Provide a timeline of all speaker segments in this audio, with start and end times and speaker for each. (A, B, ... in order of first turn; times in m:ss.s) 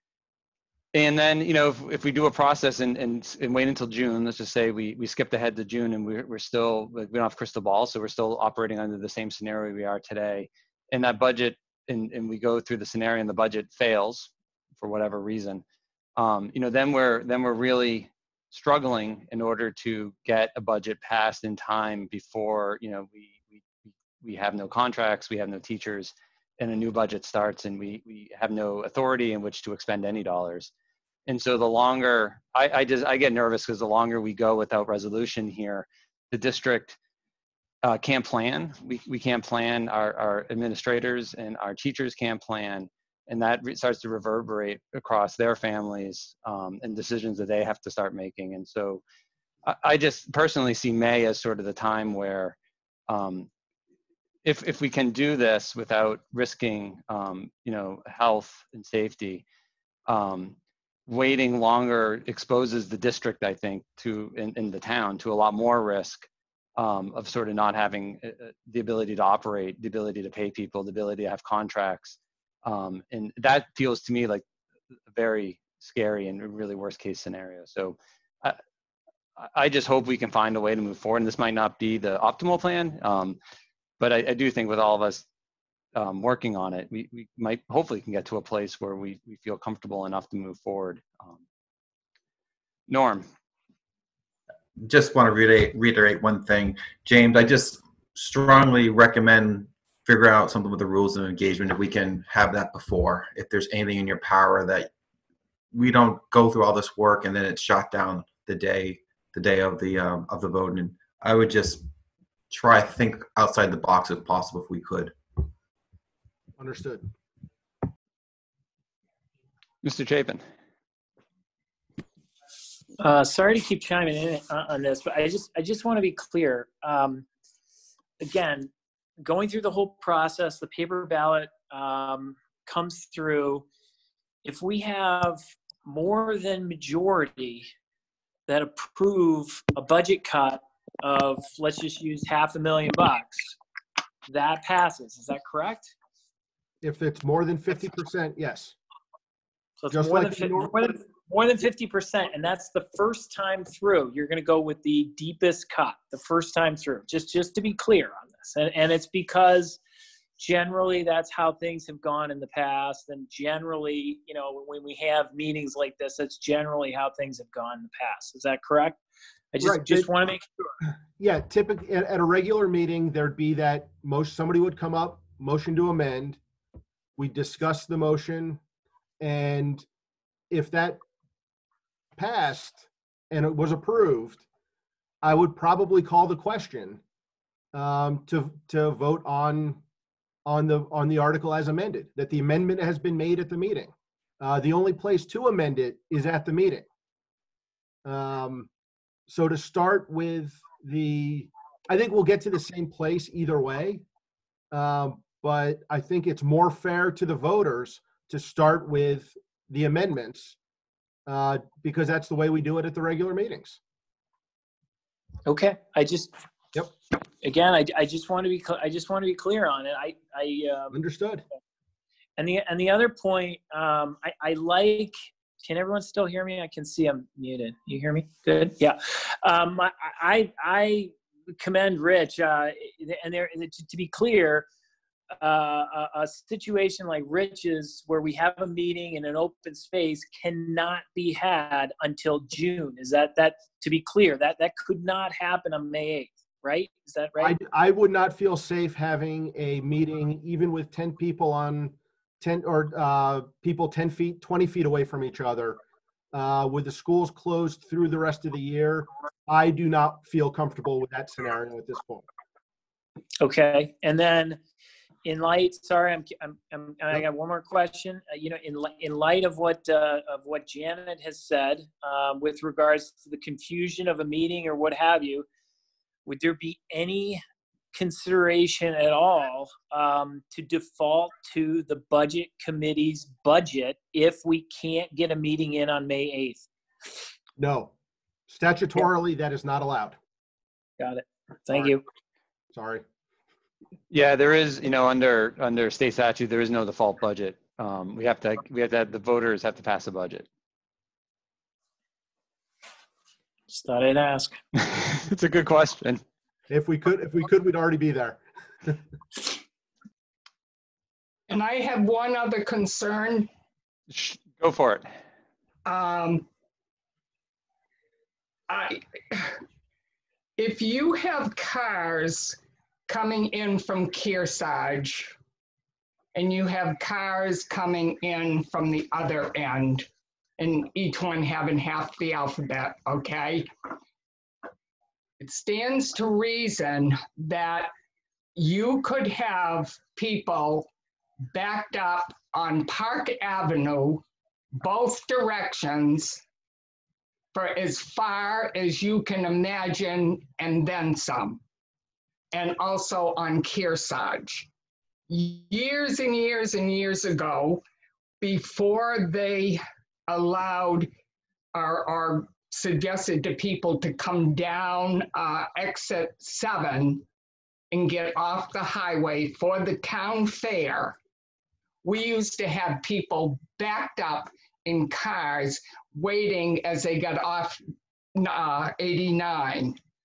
0:00.9-0:15.6 A
0:16.2-0:30.7 A
0:31.3-0:37.0 A
0:37.8-0:49.0 A
0:49.6-0:52.6 A
0:53.1-0:53.5 A
0:54.4-0:59.4 A
1:00.1-1:00.6 A
1:01.1-1:14.4 A
1:15.1-1:18.6 A
1:19.4-1:23.4 A
1:24.0-1:25.2 A
1:25.9-1:31.4 A
1:32.9-1:33.3 A
1:34.8-1:44.9 B
1:45.7-1:51.8 B
1:52.5-1:55.1 B
1:56.6-1:57.1 C
1:59.8-2:00.4 A
2:03.0-2:07.2 D
2:08.2-2:13.6 D
2:14.4-2:17.7 D
2:18.5-2:23.6 D
2:24.3-2:25.9 D
2:26.8-2:28.7 C
2:29.8-2:39.8 D
2:29.9-2:30.9 C
2:40.4-2:49.0 D
2:49.5-2:50.5 D
2:49.6-2:50.1 C
2:51.2-2:56.4 C
2:57.2-2:58.6 C
2:59.2-2:59.8 C
3:00.5-3:01.0 C
3:02.2-3:04.4 C
3:05.2-3:07.0 C
3:07.7-3:09.8 C
3:10.4-3:16.8 C
3:18.0-3:18.7 C
3:19.3-3:24.0 C
3:24.7-3:30.6 C
3:31.3-3:33.8 C
3:35.4-3:36.3 D
3:37.4-3:41.0 D
3:40.9-3:41.4 C
3:42.4-3:54.7 D
3:55.4-4:07.6 D
4:07.4-4:15.8 C
4:16.3-4:22.3 C
4:23.4-4:24.6 D
4:25.2-4:35.4 D
4:36.2-4:37.4 D
4:37.9-4:46.7 D
4:47.6-4:47.9 C
4:48.5-4:50.2 C
4:51.0-4:52.0 D
4:52.7-4:53.0 C
4:54.1-5:00.4 A
5:03.7-5:04.6 D
5:04.8-5:06.2 A
5:06.7-5:09.0 C
5:11.5-5:13.5 E
5:14.1-5:15.1 A
5:15.8-5:16.4 E
5:18.7-5:19.6 E
5:20.6-5:25.3 E
5:26.3-5:30.1 E
5:30.6-5:33.7 E
5:35.4-5:37.9 E
5:38.6-5:40.9 E
5:41.5-5:44.2 E
5:44.8-5:46.4 E
5:47.5-5:51.6 E
5:52.5-5:54.7 E
5:55.3-5:57.8 E
5:58.4-6:01.1 E
6:01.7-6:07.2 E
6:07.9-6:11.2 E
6:12.0-6:17.8 E
6:18.4-6:20.0 E